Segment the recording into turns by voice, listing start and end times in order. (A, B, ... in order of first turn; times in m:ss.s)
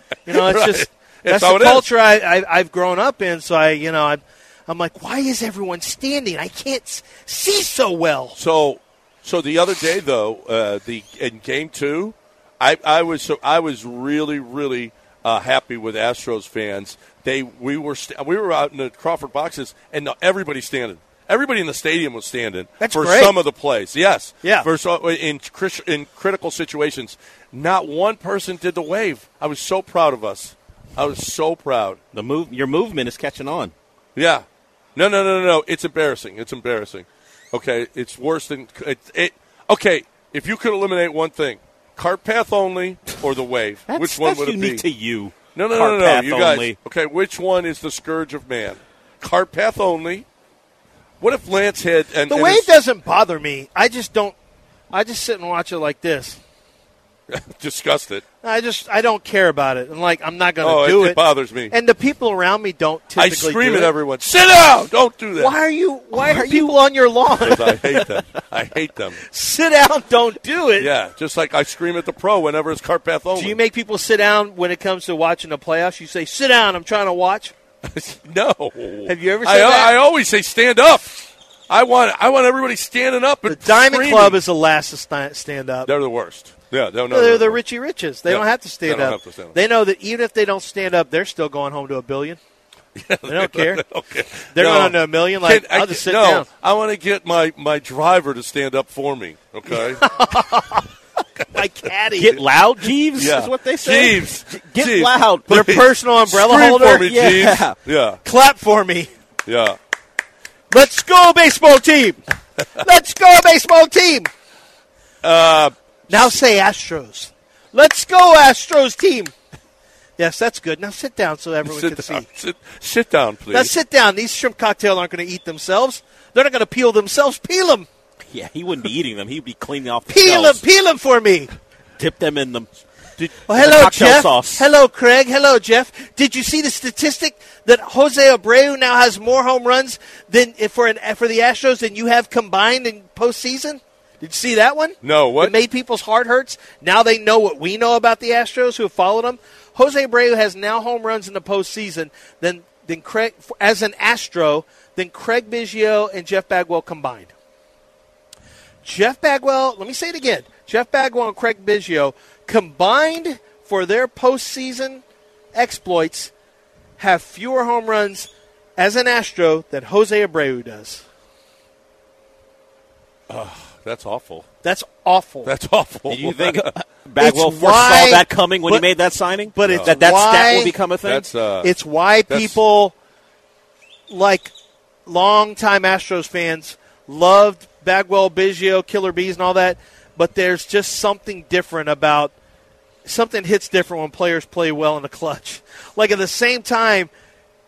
0:00.2-0:08.4 A
0:00.3-0:01.9 B
0:08.4-0:32.0 B
0:22.8-0:23.4 A
0:24.4-0:24.7 A
0:32.1-0:33.7 C
0:34.2-0:34.4 B
0:35.0-0:44.8 B
0:43.9-0:46.8 C
0:45.5-0:50.2 B
0:51.2-0:52.7 B
0:52.3-0:54.3 A
0:54.9-0:56.4 A
0:57.3-0:58.2 B
0:58.4-1:03.9 A
1:00.6-1:01.7 B
1:03.2-1:05.5 B
1:05.4-1:08.1 A
1:06.3-1:06.6 C
1:06.3-1:06.6 B
1:07.4-1:09.2 B
1:09.3-1:10.9 A
1:10.8-1:13.6 B
1:13.3-1:17.5 A
1:17.9-1:24.4 B
1:19.1-1:19.9 A
1:23.5-1:25.9 A
1:25.8-1:27.6 B
1:27.1-1:32.4 A
1:28.3-1:29.6 B
1:33.0-1:40.1 B
1:33.2-1:33.8 A
1:34.5-1:36.4 A
1:39.7-1:40.9 A
1:41.5-1:42.4 A
1:42.2-1:45.5 C
1:43.2-1:48.2 B
1:45.5-1:47.1 A
1:47.0-1:47.8 C
1:48.2-1:49.1 A
1:49.4-1:49.8 B
1:50.7-1:52.2 A
1:52.8-1:54.3 A
1:55.2-1:56.3 B
1:56.1-1:59.3 A
2:00.2-2:02.2 A
2:01.6-2:03.7 B
2:03.5-2:07.9 A
2:08.3-2:10.6 C
2:10.1-2:11.5 A
2:12.0-2:14.6 C
2:13.5-2:37.3 A
2:25.0-2:25.6 B
2:38.8-2:45.0 A
2:45.5-2:46.3 A
2:47.0-2:51.0 A
2:53.3-2:54.4 B
2:54.6-2:55.5 A
2:55.4-2:56.7 B
2:56.1-3:01.3 C
2:57.2-2:58.9 A
2:59.5-3:00.7 A
2:59.6-3:00.0 B
3:01.0-3:01.7 B
3:01.6-3:02.9 A
3:02.3-3:02.6 B
3:04.1-3:04.5 A
3:05.0-3:12.3 A
3:13.0-3:17.1 A